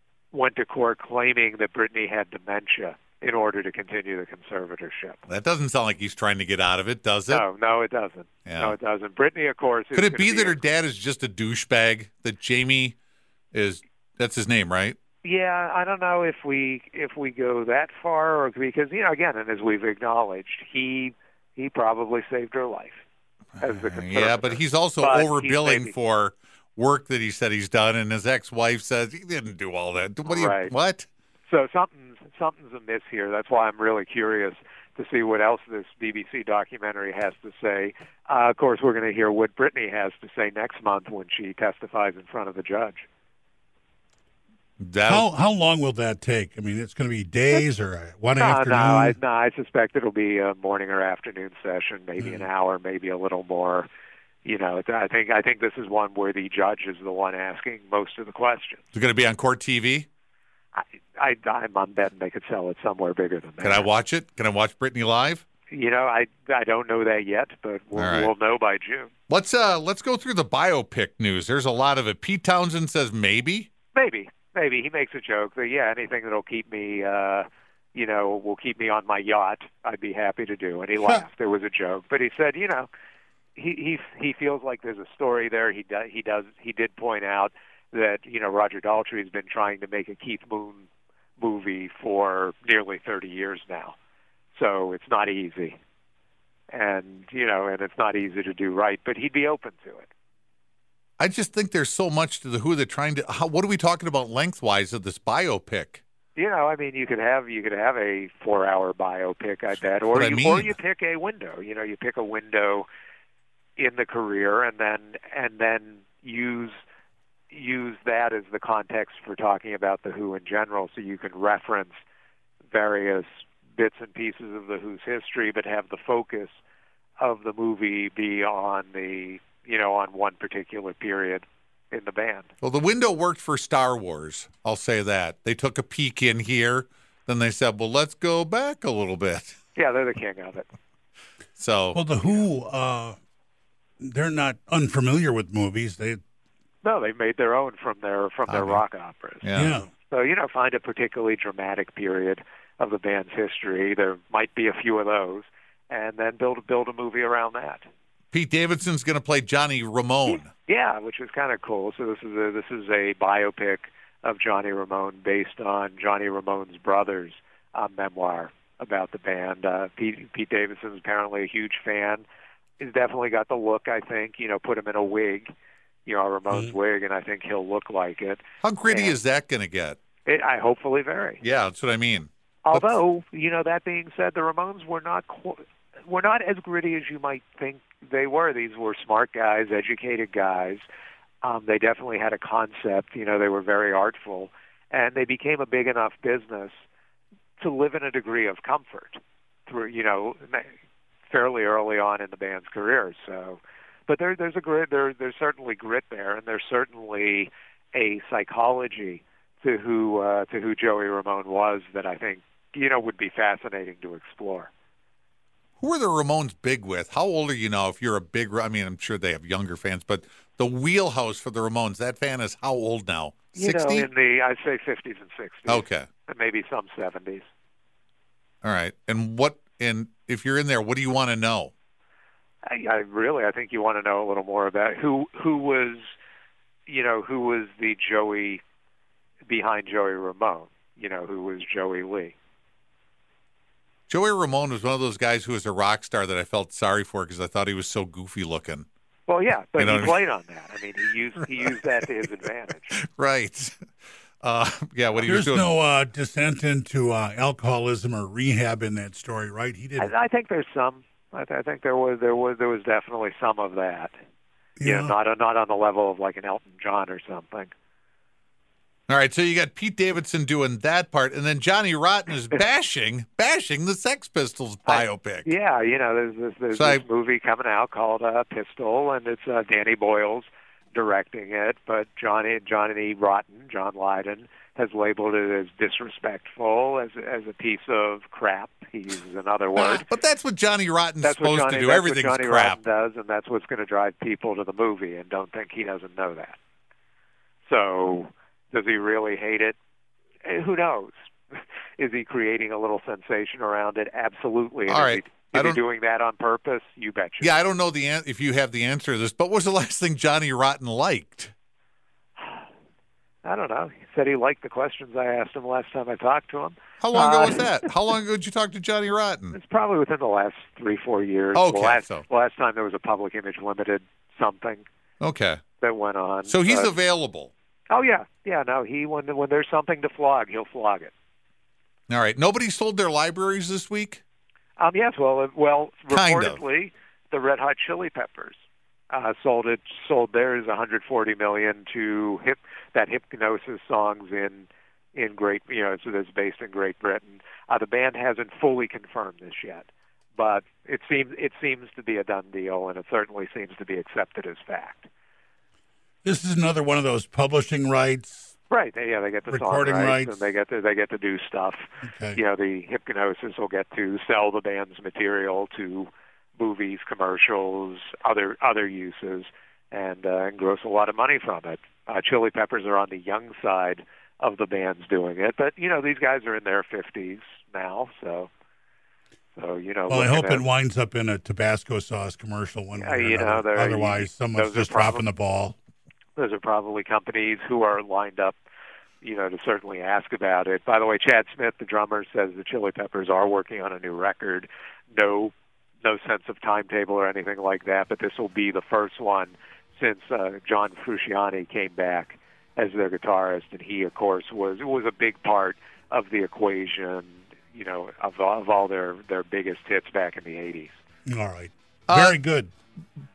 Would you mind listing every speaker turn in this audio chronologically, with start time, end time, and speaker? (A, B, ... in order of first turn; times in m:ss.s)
0:00.3-0:05.2 A
0:05.3-0:07.4 B
0:07.3-0:10.6 A
0:08.4-0:08.7 B
0:09.9-0:13.0 B
0:13.5-0:15.0 B
0:15.2-0:23.0 A
0:23.6-0:25.9 A
0:23.6-0:31.0 B
0:30.2-0:30.7 A
0:31.5-0:43.0 A
0:44.8-0:45.3 B
0:45.0-0:49.2 C
0:48.4-0:53.9 A
0:52.2-0:52.4 C
0:54.4-0:58.8 A
0:58.9-1:00.1 B
1:00.7-1:03.8 A
1:03.6-1:05.4 B
1:05.7-1:09.1 A
1:07.9-1:08.3 B
1:09.3-1:13.7 B
1:13.9-1:22.9 A
1:23.5-1:34.0 A
1:34.5-1:35.8 A
1:36.7-1:40.1 A
1:41.2-1:46.0 B
1:46.3-1:52.9 A
1:50.1-1:50.7 B
1:53.8-1:56.8 A
1:57.5-2:02.0 A
2:02.7-2:06.6 A
2:07.2-2:12.5 A
2:12.6-2:19.6 B
2:19.7-2:20.7 A
2:21.6-2:22.0 B
2:21.9-2:23.2 C
2:24.0-2:26.2 C
2:26.8-2:37.9 A
2:28.5-2:28.8 B
2:29.4-2:29.8 B
2:29.5-2:29.9 C
2:38.3-2:40.5 B
2:40.5-2:52.2 A
2:52.8-2:55.5 A
2:56.0-2:59.2 A
2:58.6-3:00.0 B
3:00.2-3:01.4 A
3:01.4-3:03.0 B
3:02.6-3:10.8 A
3:11.4-3:16.8 A
3:17.6-3:20.7 A
3:21.3-3:34.7 A
3:35.8-3:44.1 B
3:43.5-3:47.5 A
3:45.7-3:46.1 B
3:48.6-3:51.7 B
3:52.6-3:56.1 A
3:56.9-3:58.6 A
3:59.5-4:02.3 A
4:04.1-4:08.8 B
4:09.3-4:12.9 A
4:09.8-4:10.2 B
4:12.9-4:13.8 B
4:14.4-4:15.7 B
4:15.2-4:20.1 C
4:20.0-4:24.1 A
4:24.8-4:25.1 C
4:24.8-4:27.7 A
4:29.1-4:35.5 B
4:34.8-4:50.0 A
4:36.7-4:37.0 B
4:49.8-4:52.8 B
4:51.2-4:56.6 A
4:57.6-4:59.8 A
5:00.4-5:07.5 A
5:04.9-5:05.8 B
5:07.4-5:11.5 B
5:13.4-5:17.8 A
5:17.0-5:19.6 B
5:19.5-5:24.8 A
5:21.5-5:22.2 B
5:25.2-5:25.6 B
5:25.8-5:26.9 A
5:26.4-5:27.5 B
5:27.9-5:31.1 A
5:32.1-5:34.2 B
5:34.8-5:55.1 A
5:36.1-5:36.6 B
5:56.2-5:58.5 C
5:58.7-6:18.5 A
5:59.5-6:00.3 C
6:02.0-6:02.4 C
6:19.6-6:20.6 A
6:20.1-6:25.7 C
6:23.0-6:25.2 A
6:26.4-6:28.6 A
6:29.2-6:50.9 A
6:51.2-6:52.7 C
6:52.1-6:52.4 B